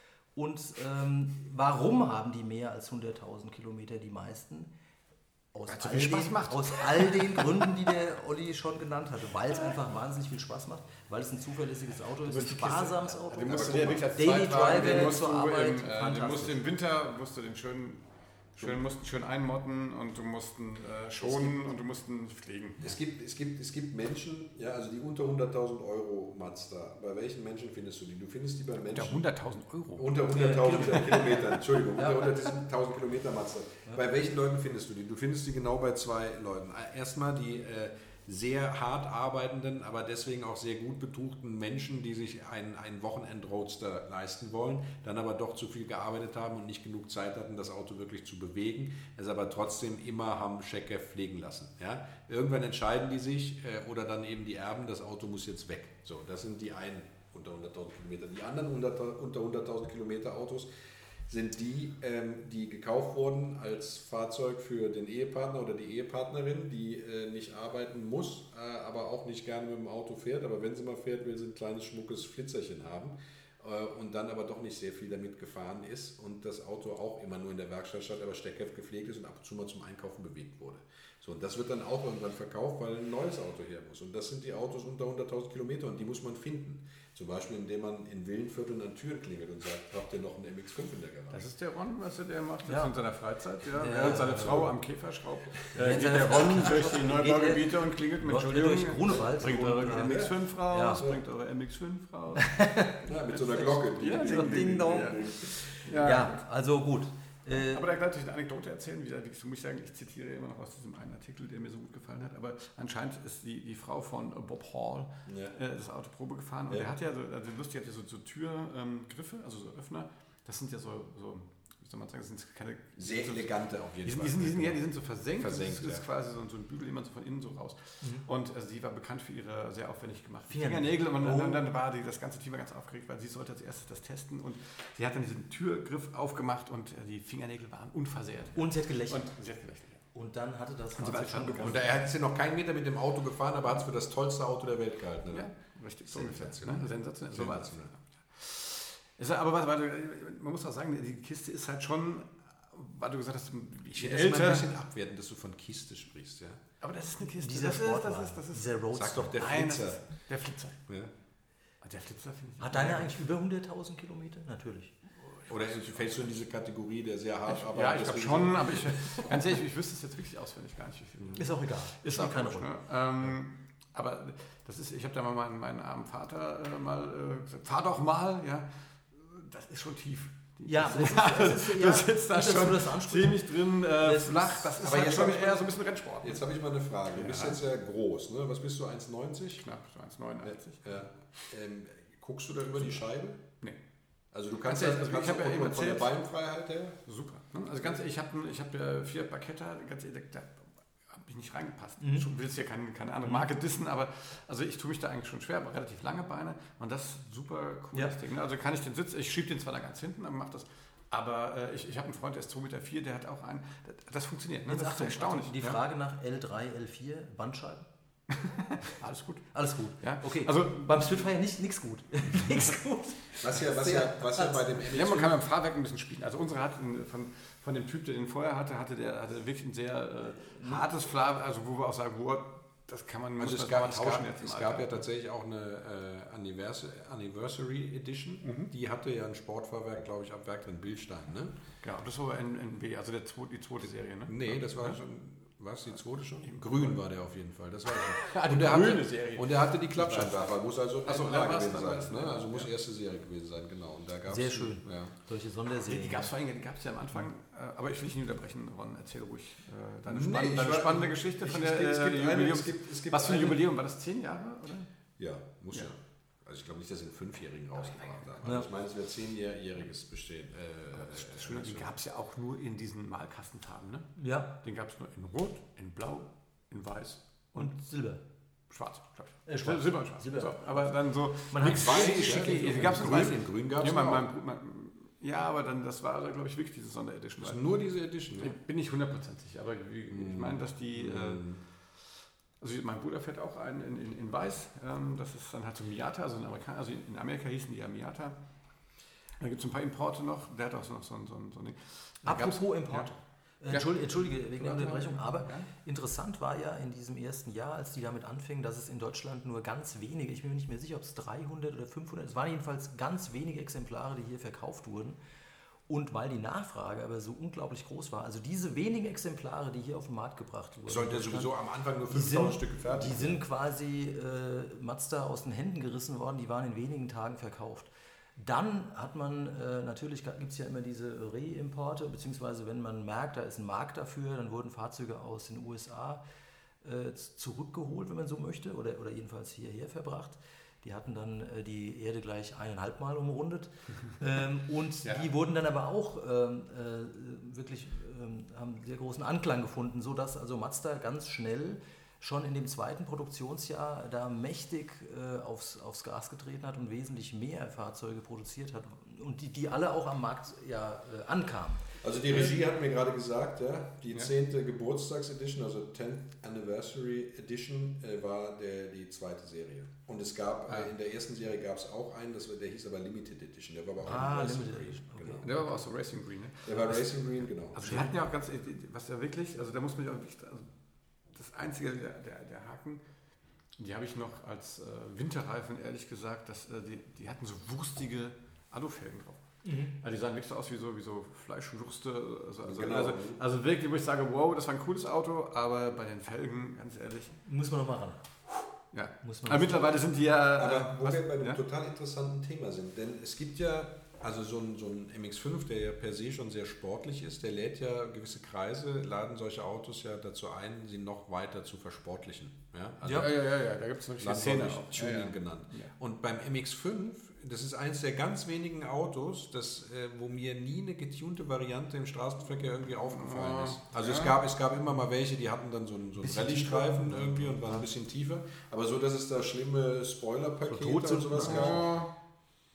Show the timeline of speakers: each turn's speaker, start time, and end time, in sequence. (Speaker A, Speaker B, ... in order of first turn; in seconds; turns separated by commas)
Speaker A: 0.3-4.7, Speaker A: 5.5-16.6, Speaker B: 5.7-7.5, Speaker B: 12.2-22.9, Speaker C: 13.3-15.1, Speaker C: 21.2-21.5, Speaker C: 22.8-29.2, Speaker B: 28.8-30.2, Speaker C: 29.9-60.7, Speaker A: 30.3-32.3, Speaker B: 30.9-31.4, Speaker C: 61.3-91.5, Speaker B: 91.3-102.6, Speaker A: 92.7-92.9, Speaker A: 93.7-94.7, Speaker C: 94.4-94.7, Speaker A: 95.7-101.0, Speaker C: 99.9-101.2, Speaker A: 102.4-107.8, Speaker C: 103.0-105.7, Speaker B: 103.3-106.3, Speaker B: 107.5-140.0, Speaker C: 115.3-115.5, Speaker C: 123.0-124.8, Speaker C: 125.3-126.0, Speaker A: 130.5-131.6, Speaker A: 138.5-139.3, Speaker A: 140.1-142.0, Speaker B: 141.0-142.0, Speaker C: 141.6-145.5, Speaker B: 145.3-154.7, Speaker C: 146.1-147.9, Speaker C: 153.9-156.6, Speaker B: 156.8-158.8, Speaker A: 157.2-159.4, Speaker C: 158.9-160.0, Speaker B: 159.3-160.8, Speaker B: 161.8-163.1, Speaker A: 162.6-164.9, Speaker B: 165.3-165.8, Speaker C: 165.5-169.4, Speaker B: 167.5-186.4, Speaker A: 171.4-172.7, Speaker A: 180.6-184.7, Speaker C: 184.8-189.6, Speaker B: 187.1-187.6, Speaker B: 189.6-190.9, Speaker C: 190.4-193.5, Speaker C: 194.3-197.0, Speaker B: 194.6-196.1, Speaker B: 197.1-215.8, Speaker A: 202.0-202.3, Speaker A: 214.7-217.9, Speaker B: 218.3-221.3, Speaker A: 219.5-224.7, Speaker B: 222.3-222.8, Speaker C: 223.4-225.4, Speaker B: 224.9-234.9, Speaker A: 230.5-230.8, Speaker C: 233.4-241.5, Speaker B: 238.4-238.7, Speaker B: 241.8-245.0, Speaker C: 244.3-255.1, Speaker B: 246.4-246.9, Speaker B: 247.9-252.7, Speaker A: 254.3-256.3, Speaker B: 255.8-264.9, Speaker C: 260.1-263.6, Speaker C: 265.2-271.9, Speaker B: 267.8-268.4, Speaker B: 270.9-277.8, Speaker A: 274.2-274.5, Speaker A: 277.6-278.2, Speaker B: 278.7-287.7, Speaker A: 279.4-280.9, Speaker A: 281.5-282.7, Speaker C: 281.6-284.3, Speaker C: 287.4-288.6, Speaker B: 288.3-291.6, Speaker C: 290.1-291.6, Speaker B: 292.6-298.4, Speaker B: 299.4-303.1, Speaker A: 302.2-315.2, Speaker B: 303.7-305.7, Speaker A: 315.9-321.5, Speaker C: 320.9-323.4, Speaker A: 322.1-336.2, Speaker A: 336.8-361.9, Speaker C: 362.0-375.5, Speaker A: 374.0-375.8, Speaker B: 375.4-377.2, Speaker C: 376.6-378.1, Speaker B: 377.7-380.7, Speaker B: 381.3-383.0, Speaker B: 383.8-389.4, Speaker A: 389.6-389.9, Speaker B: 389.9-397.3, Speaker C: 392.6-393.4, Speaker A: 397.4-398.2, Speaker B: 398.8-401.6, Speaker A: 399.2-399.8, Speaker C: 400.6-413.4, Speaker B: 413.1-415.9, Speaker C: 414.2-432.0, Speaker B: 423.1-424.4, Speaker A: 426.2-427.9, Speaker A: 430.6-431.9, Speaker B: 431.3-432.1